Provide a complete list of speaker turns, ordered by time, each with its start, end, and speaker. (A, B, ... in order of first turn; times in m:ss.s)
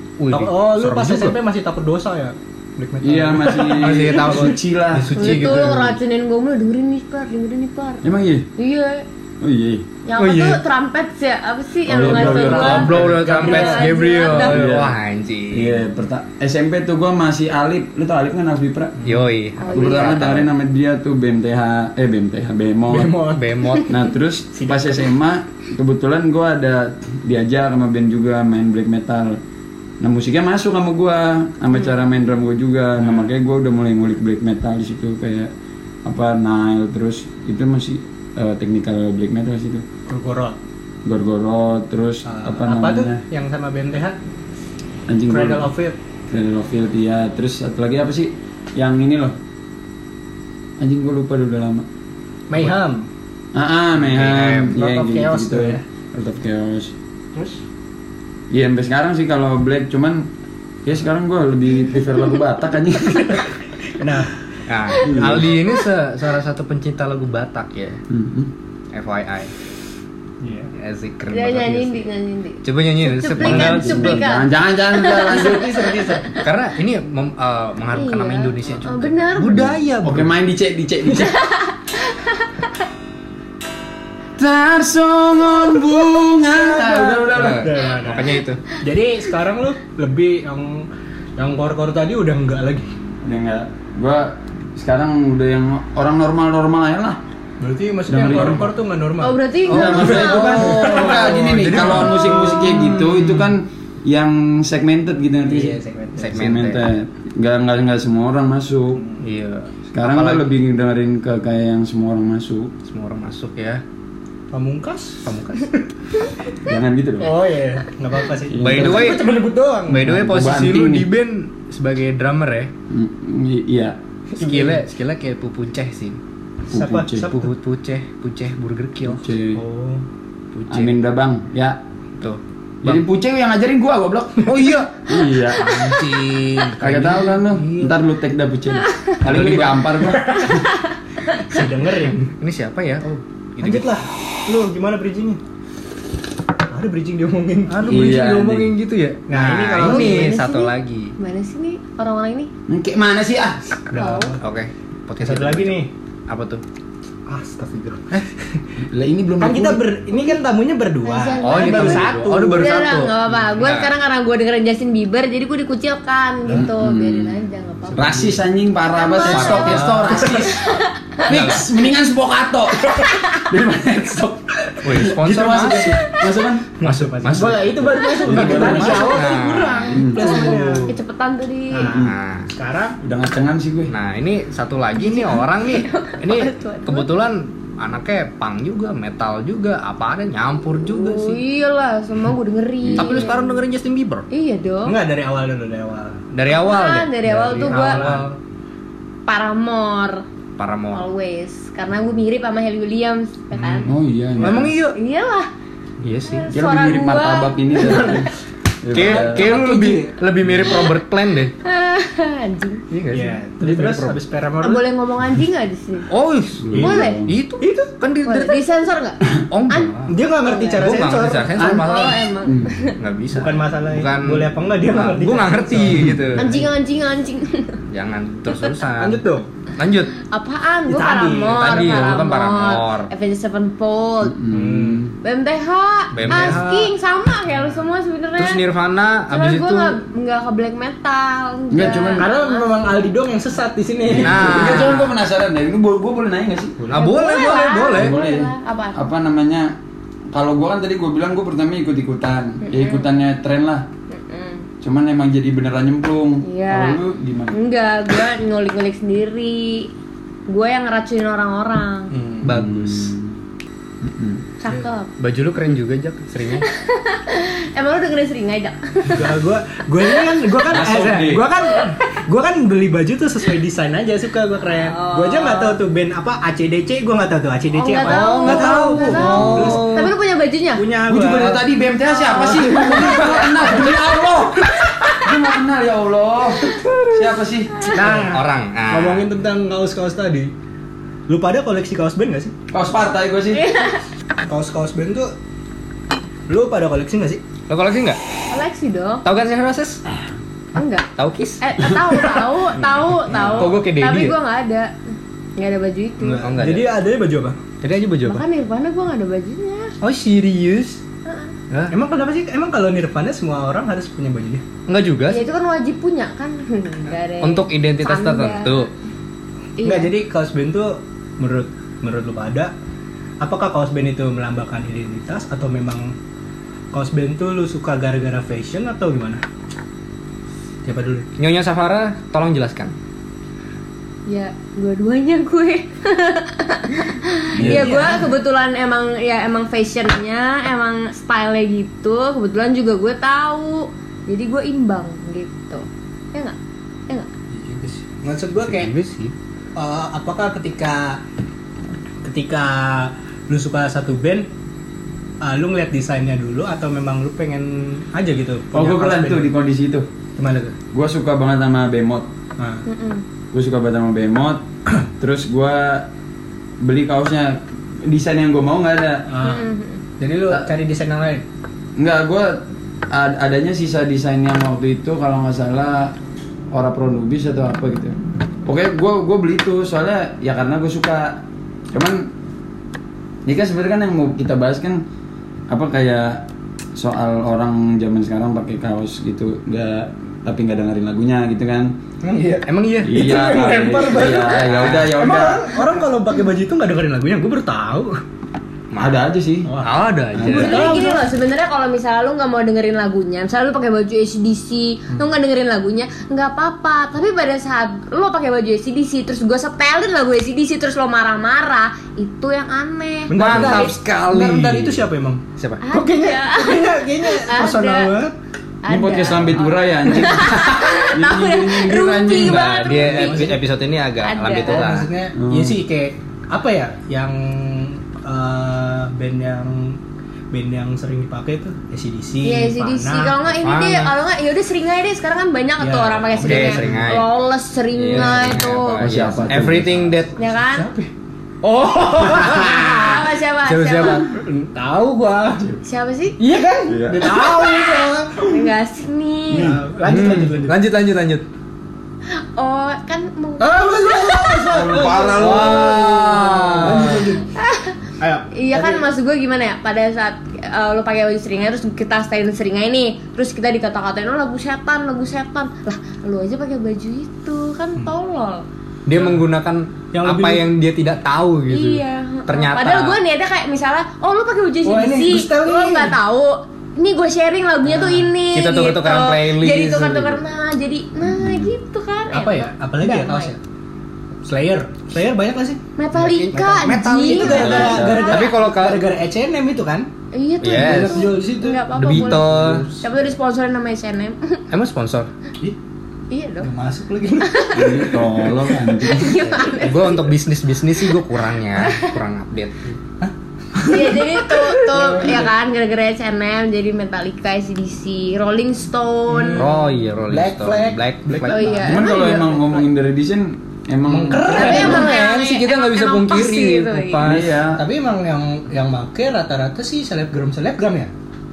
0:00.2-0:01.4 A
0:00.3-0:04.6 B
0:03.0-0:06.0 C
0:03.6-0:05.9 A
0:05.2-0:08.0 D
0:08.0-0:08.5 C
0:08.6-0:09.0 D
0:09.4-0:09.9 C
0:10.0-0:14.7 D
0:10.2-0:10.6 A
0:11.9-0:13.2 C
0:12.0-0:15.8 A
0:12.1-0:14.0 B
0:14.3-0:15.0 C
0:15.5-0:19.1 C
0:19.0-0:20.5 A
0:19.6-0:20.2 D
0:19.7-0:23.1 C
0:22.9-0:23.8 B
0:23.3-0:23.9 A
0:23.9-0:29.4 C
0:24.6-0:25.0 B
0:30.0-0:35.5 C
0:33.0-0:33.3 B
0:36.0-0:39.8 C
0:40.1-0:40.6 B
0:41.0-0:43.2 C
0:42.2-0:44.2 B
0:45.1-0:45.7 C
0:45.3-0:46.0 B
0:46.3-0:49.4 C
0:50.8-0:51.9 C
0:52.5-0:53.1 B
0:53.5-0:56.9 C
0:54.0-0:54.8 A
0:54.7-0:55.8 B
0:57.4-0:57.6 B
0:58.5-1:00.3 C
1:00.8-1:03.4 C
1:03.2-1:04.3 B
1:04.7-1:08.0 A
1:05.0-1:05.6 C
1:08.1-1:08.5 C
1:08.9-1:09.5 A
1:10.4-1:10.7 B
1:10.8-1:12.1 A
1:11.3-1:15.6 D
1:12.6-1:14.3 A
1:13.4-1:16.0 C
1:15.1-1:16.4 B
1:16.4-1:20.3 A
1:17.9-1:19.7 D
1:19.5-1:20.3 B
1:19.6-1:21.4 C
1:21.1-1:21.3 B
1:21.4-1:22.5 D
1:24.4-1:27.8 C
1:26.5-1:32.9 B
1:27.3-1:28.6 A
1:33.2-1:37.2 C
1:37.6-1:43.2 B
1:38.1-1:38.7 C
1:39.2-1:41.4 D
1:39.7-1:43.4 A
1:39.7-1:45.8 C
1:45.5-1:46.4 B
1:46.2-1:46.9 A
1:46.3-1:49.0 C
1:49.0-1:49.2 B
1:49.2-1:50.4 A
1:49.9-1:52.7 C
1:52.9-1:53.8 A
1:54.5-1:55.3 B
1:55.2-1:55.8 A
1:56.6-1:57.3 C
1:57.2-2:00.1 B
1:58.5-1:59.2 C
1:58.6-1:59.3 A
1:59.9-2:01.1 C
1:59.9-2:02.7 A
2:02.9-2:04.0 C
2:04.3-2:04.8 B
2:04.4-2:06.2 A
2:06.7-2:07.3 C
2:06.7-2:07.5 B
2:07.2-2:09.2 A
2:09.0-2:09.6 C
2:09.6-2:10.0 B
2:10.5-2:11.0 A
2:10.7-2:11.8 C
2:12.2-2:13.0 A
2:12.8-2:16.0 C
2:14.5-2:14.8 A
2:15.5-2:17.4 A
2:16.8-2:20.7 C
2:17.5-2:17.9 B
2:19.3-2:20.6 B
2:19.3-2:19.6 A
2:21.4-2:22.3 B
2:22.4-2:24.0 A
2:23.6-2:25.4 B
2:26.7-2:28.0 B
2:27.7-2:31.2 A
2:27.9-2:28.8 C
2:29.3-2:30.4 B
2:29.8-2:32.5 D
2:32.7-2:33.7 C
2:33.9-2:34.4 B
2:34.0-2:34.4 D
2:34.4-2:36.6 A
2:35.2-2:35.9 B
2:37.3-2:38.6 B
2:38.9-2:39.9 C
2:39.4-2:42.6 B
2:40.1-2:40.4 D
2:41.0-2:48.3 D
2:41.4-2:44.0 A
2:46.5-2:47.4 C
2:47.9-2:48.4 B
2:48.0-2:59.2 C
2:48.9-2:51.3 D
2:49.2-2:50.2 A
2:49.5-2:50.6 B
2:51.3-2:51.6 A
2:53.1-2:53.4 D
2:54.8-2:56.1 A
2:55.0-2:56.0 B
2:56.8-3:00.9 B
2:56.8-3:00.9 A
2:58.7-3:01.9 D
2:59.9-3:00.5 C
3:01.7-3:03.0 B
3:01.8-3:02.1 C
3:01.9-3:02.5 A
3:03.0-3:03.9 C
3:03.9-3:11.4 A
3:05.0-3:07.1 D
3:10.9-3:13.6 D
3:12.8-3:13.3 C
3:12.9-3:14.3 A
3:14.3-3:15.0 D
3:14.8-3:16.2 B
3:16.3-3:18.3 A
3:16.5-3:18.1 D
3:17.3-3:18.4 B
3:19.3-3:20.2 D
3:20.6-3:21.1 A
3:20.9-3:23.9 D
3:23.6-3:24.9 B
3:23.9-3:24.8 C
3:24.4-3:24.7 A
3:24.9-3:25.5 D
3:26.0-3:26.5 A
3:26.2-3:28.2 D
3:26.5-3:29.6 C
3:27.9-3:28.2 B
3:28.9-3:31.5 A
3:29.0-3:30.2 B
3:30.6-3:30.9 D
3:31.6-3:32.8 D
3:32.9-3:34.2 A
3:33.1-3:34.8 B
3:34.6-3:36.1 D
3:36.1-3:38.6 A
3:36.6-3:37.4 C
3:36.8-3:37.2 D
3:37.6-3:37.9 B
3:38.2-3:40.9 D
3:39.5-3:40.1 A
3:40.1-3:41.6 B
3:40.7-3:42.3 A
3:41.6-3:41.9 C
3:41.6-3:43.0 D
3:42.4-3:42.7 C
3:43.0-3:46.6 A
3:43.3-3:46.7 B
3:46.4-3:47.8 D
3:47.9-3:49.2 A
3:49.0-3:49.5 B
3:49.8-3:50.2 A
3:50.2-3:54.4 D
3:50.9-3:52.1 B
3:51.5-3:53.1 A
3:54.3-3:55.1 C
3:54.6-3:55.0 B
3:55.2-3:58.6 D
3:56.1-3:56.7 A
3:56.2-3:56.9 B
3:58.4-4:00.0 A
3:59.3-4:03.0 D
4:01.7-4:02.3 C
4:02.2-4:04.8 B
4:04.1-4:06.8 C
4:04.2-4:05.1 A
4:06.8-4:07.1 B
4:06.9-4:08.2 A
4:06.9-4:09.1 D
4:07.9-4:09.7 C
4:10.3-4:13.9 C
4:12.6-4:13.1 D
4:14.1-4:14.7 D
4:14.8-4:17.6 C
4:16.4-4:17.0 D
4:17.5-4:19.9 D
4:20.5-4:22.1 D
4:22.1-4:22.5 B
4:22.4-4:23.2 A
4:22.4-4:23.4 C
4:24.0-4:24.4 C
4:24.6-4:25.1 D
4:25.2-4:26.7 A
4:26.7-4:29.3 D
4:29.1-4:40.0 B
4:30.6-4:31.5 C
4:34.8-4:35.8 D
4:37.7-4:40.9 D
4:38.0-4:40.1 A
4:39.2-4:39.8 C
4:40.8-4:41.6 B
4:41.1-4:47.8 C
4:42.0-4:44.0 D
4:42.3-4:43.6 B
4:47.9-4:50.5 B
4:47.9-4:49.3 A
4:51.3-4:52.5 B
4:52.7-4:53.7 C
4:53.5-4:54.0 D
4:54.4-4:55.3 B
4:56.5-4:57.4 B
4:57.7-4:58.2 A
4:58.5-4:59.2 D
4:59.2-5:00.0 A
5:00.8-5:01.1 D
5:01.2-5:01.6 A
5:01.6-5:06.5 D
5:02.1-5:02.5 B
5:03.3-5:04.4 A
5:06.3-5:07.0 A
5:06.3-5:07.6 B
5:07.8-5:08.4 A
5:08.2-5:09.9 D
5:10.0-5:11.0 A
5:11.2-5:11.5 D
5:11.7-5:12.0 A
5:11.9-5:14.6 B
5:14.9-5:15.4 A
5:15.3-5:18.9 D
5:17.4-5:18.9 A
5:19.8-5:20.1 D
5:19.8-5:22.7 B
5:23.4-5:26.1 B
5:26.9-5:29.4 B
5:30.8-5:31.3 B
5:31.4-5:33.0 A
5:34.3-5:46.6 D
5:37.6-5:38.1 C
5:37.6-5:38.3 B
5:47.5-5:48.9 B
5:48.6-5:49.3 A
5:49.8-5:51.2 B
5:52.2-5:54.5 B
5:55.4-5:59.5 B
5:58.7-6:00.1 C
6:00.4-6:00.8 B
6:00.9-6:02.3 C
6:02.6-6:02.8 B
6:02.9-6:03.2 D
6:03.5-6:04.6 C
6:05.2-6:06.1 C
6:06.8-6:09.2 C
6:09.3-6:09.7 B
6:09.4-6:10.0 D
6:10.2-6:11.4 B
6:12.0-6:16.2 C
6:16.7-6:22.3 C
6:23.4-6:25.0 C
6:25.7-6:32.0 C
6:32.2-6:38.2 B
6:32.7-6:33.2 A
6:33.0-6:35.8 C
6:34.3-6:35.1 A
6:38.9-6:39.2 A
6:39.0-6:39.8 C
6:39.6-6:41.3 B
6:39.8-6:41.0 A
6:40.3-6:40.9 C
6:40.5-6:53.9 D
6:53.3-6:58.3 B
6:53.3-6:55.8 A
6:55.8-6:58.1 D
6:58.8-7:03.6 D
6:58.9-7:02.7 C
7:02.3-7:05.1 A
7:02.9-7:03.6 B
7:04.2-7:04.9 D
7:04.6-7:10.0 B
7:05.4-7:05.8 C
7:10.5-7:13.4 B
7:12.4-7:19.1 D
7:13.6-7:14.1 A
7:15.8-7:17.2 B
7:16.4-7:17.3 A
7:17.9-7:20.4 A
7:18.1-7:18.4 B
7:19.0-7:20.1 C
7:19.5-7:20.0 B
7:20.4-7:20.9 D
7:20.6-7:21.1 B
7:21.6-7:24.4 A
7:22.3-7:23.2 B
7:22.6-7:24.3 D
7:24.2-7:25.7 B
7:25.8-7:26.4 D
7:26.4-7:28.6 B
7:26.9-7:27.4 C
7:28.4-7:29.8 D
7:29.5-7:30.5 C
7:29.6-7:30.8 B
7:30.0-7:31.4 A
7:32.3-7:35.3 D
7:33.6-7:37.4 B
7:34.7-7:37.3 C
7:35.3-7:37.3 A
7:37.6-7:38.0 D
7:38.2-7:39.1 B
7:38.5-7:48.6 D
7:49.1-7:53.2 A
7:49.1-7:49.4 B
7:50.1-7:50.6 B
7:51.7-8:03.6 D
7:54.8-7:56.2 B
7:57.8-7:58.3 B
7:58.5-8:00.4 A
8:01.2-8:01.7 C
8:02.3-8:03.6 B
8:04.4-8:10.1 B
8:06.0-8:08.6 D
8:06.3-8:09.0 A
8:07.5-8:08.3 C
8:10.3-8:14.6 D
8:10.6-8:11.4 A
8:10.7-8:13.1 B
8:12.0-8:12.9 A
8:14.7-8:15.3 A
8:16.3-8:16.7 D
8:16.6-8:19.0 B
8:17.4-8:18.2 D
8:17.7-8:19.5 C
8:18.8-8:20.3 D
8:19.6-8:22.8 A
8:21.8-8:22.2 D
8:23.2-8:25.5 B
8:23.8-8:29.7 D
8:29.3-8:32.1 B
8:29.6-8:31.8 A
8:31.5-8:32.7 D
8:31.8-8:35.0 C
8:34.1-8:35.1 B
8:34.5-8:37.6 A
8:34.5-8:37.3 D
8:37.2-8:37.8 C
8:37.7-8:41.1 B